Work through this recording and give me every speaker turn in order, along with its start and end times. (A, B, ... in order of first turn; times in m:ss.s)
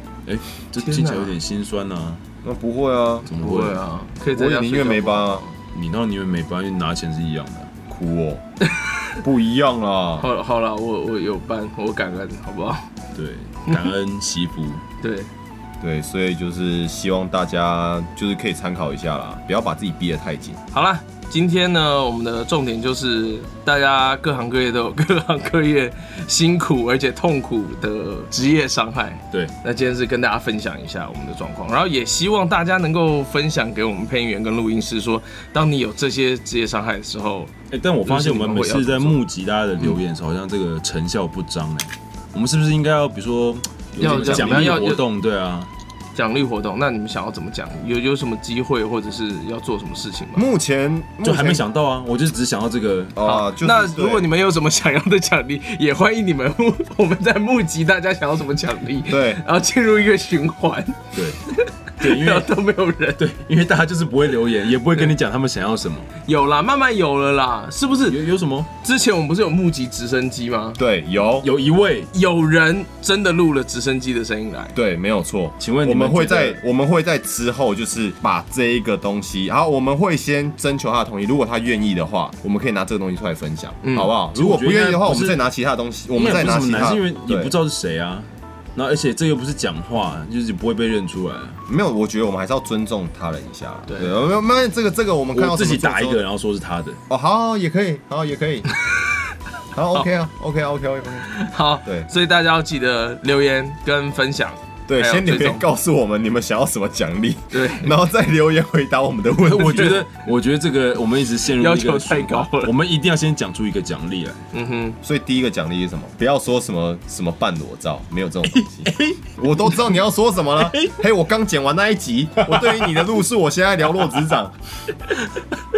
0:00.3-0:02.2 A
0:00.8-0:01.4 B
0:02.4-0:03.3 C
0:03.3-0:03.8 A
0:03.4-0:05.5 B
0:04.3-0:05.4 C
0:05.7-0:07.7 A
0:07.9-0:08.4 C
0:08.7-0:09.2 B
0:09.2-0:10.3 C
0:10.2-0:12.9 B
0:13.2-0:14.8 A
0:15.0-0:15.3 B
0:15.8-0:20.6 C
0:20.7-0:37.5 B
0:37.7-0:45.7 A
0:38.1-0:39.2 B
0:44.0-0:44.8 C
0:44.0-0:45.0 B
0:46.2-0:50.5 B
0:50.4-0:51.6 C
0:51.2-0:53.2 A
0:53.2-0:54.3 C
0:53.2-1:03.2 B
0:59.1-0:59.4 C
1:01.1-1:01.4 A
1:02.0-1:02.5 A
1:03.2-1:06.1 A
1:06.2-1:08.2 B
1:08.1-1:08.7 A
1:08.8-1:10.8 B
1:10.8-1:11.5 C
1:11.4-1:12.1 A
1:12.1-1:14.8 B
1:14.8-1:27.5 C
1:15.6-1:16.6 A
1:23.8-1:24.1 B
1:24.3-1:25.4 A
1:26.2-1:31.6 A
1:31.7-1:36.2 C
1:33.9-1:34.2 B
1:35.4-1:37.0 A
1:37.1-1:38.7 C
1:39.7-1:41.3 C
1:41.3-1:45.6 B
1:44.9-1:50.0 C
1:47.5-1:47.9 B
1:49.4-1:54.4 A
1:51.6-1:52.7 B
1:54.5-1:55.0 B
1:55.0-2:04.6 C
1:58.4-1:59.3 A
2:00.6-2:01.0 A